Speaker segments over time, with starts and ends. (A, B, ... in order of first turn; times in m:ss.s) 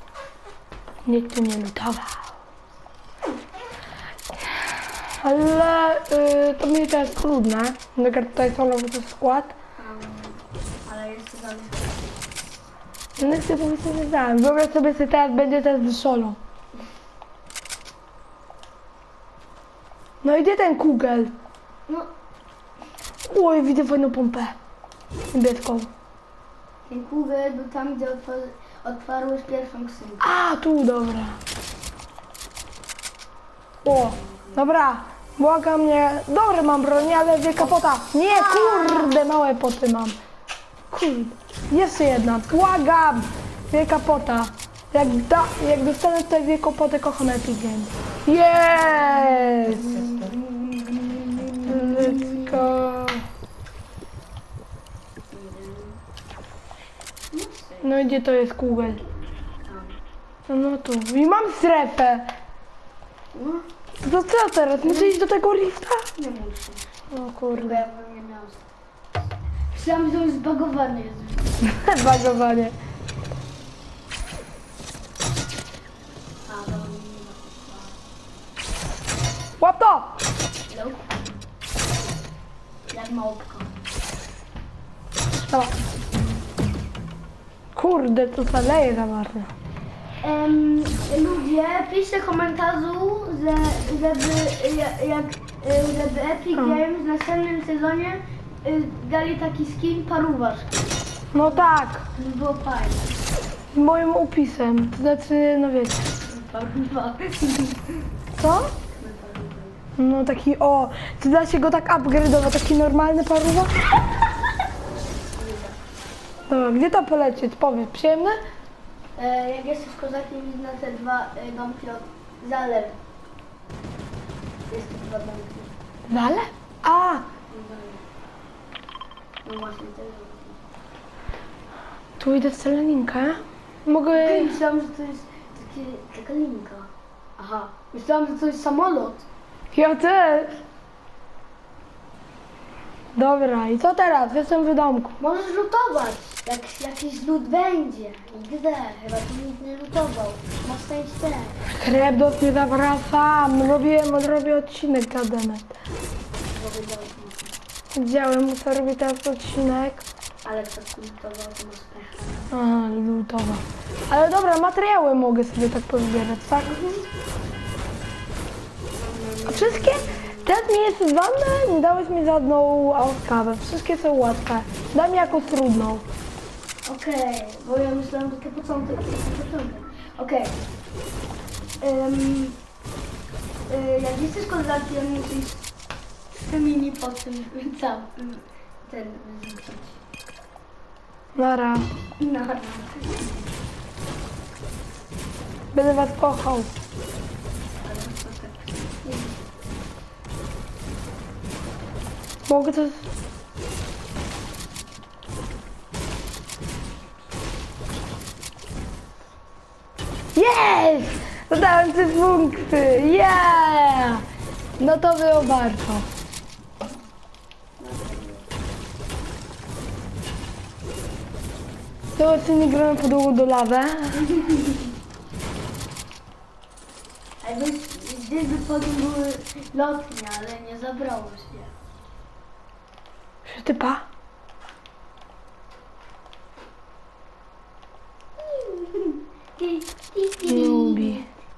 0:01.0-0:02.3 A
0:05.2-0:09.6 A
0:09.8-0:12.2 B
0:13.2-0:16.4 A
0:20.2-0:21.3 A
0:23.2-0:24.6 A
0:25.3-0:25.9 A
0:26.9-0:30.3 B
0:30.2-0:31.4 A
0:33.8-0:40.2 A
0:34.0-0:34.7 B
0:37.6-0:39.3 B
0:40.9-0:50.1 A
0:48.8-0:52.7 B
0:51.6-0:53.2 A
0:55.3-0:56.0 B
0:57.3-0:58.1 B
0:57.8-0:59.0 A
0:59.7-1:00.0 B
1:00.5-1:02.3 A
1:03.3-1:03.7 B
1:04.0-1:06.0 A
1:04.8-1:05.2 B
1:06.2-1:06.8 B
1:07.1-1:07.8 A
1:07.5-1:08.6 B
1:09.7-1:11.5 B
1:11.6-1:12.8 A
1:16.5-1:18.0 B
1:19.6-1:20.2 A
1:20.7-1:21.0 B
1:22.9-1:23.7 B
1:25.4-1:25.8 A
1:27.8-1:29.5 A
1:30.2-1:43.2 B
1:36.6-1:36.8 A
1:41.3-1:42.1 A
1:43.7-1:46.1 A
1:46.2-1:48.0 B
1:48.4-1:48.7 A
1:48.9-1:49.8 B
1:50.0-1:53.9 A
1:55.3-1:55.8 B
1:56.5-1:58.4 A
1:59.2-2:03.0 B
2:04.7-2:05.7 B
2:06.1-2:07.3 A
2:07.5-2:08.0 B
2:09.4-2:10.6 B
2:12.2-2:14.6 A
2:14.1-2:19.3 B
2:19.7-2:20.6 A
2:23.2-2:25.2 A
2:25.2-2:31.6 B
2:31.7-2:35.8 A
2:36.5-2:37.6 B
2:37.9-2:40.0 A
2:40.4-2:42.5 B
2:42.5-2:46.9 A
2:46.7-2:47.1 B
2:48.9-2:50.7 B
2:49.5-2:56.0 A
2:56.8-3:00.6 B
3:01.8-3:02.6 B
3:03.7-3:05.6 B
3:06.3-3:10.0 B
3:11.4-3:11.9 A
3:12.2-3:13.5 B
3:15.7-3:16.7 A
3:17.8-3:19.4 B
3:22.5-3:23.1 A
3:30.4-3:34.2 A
3:34.8-3:36.1 A
3:37.8-3:38.5 B
3:42.2-3:44.2 A
3:44.2-3:44.9 B
3:47.4-3:51.7 B
3:53.4-3:54.1 A
3:58.4-4:01.3 B
4:00.5-4:01.3 A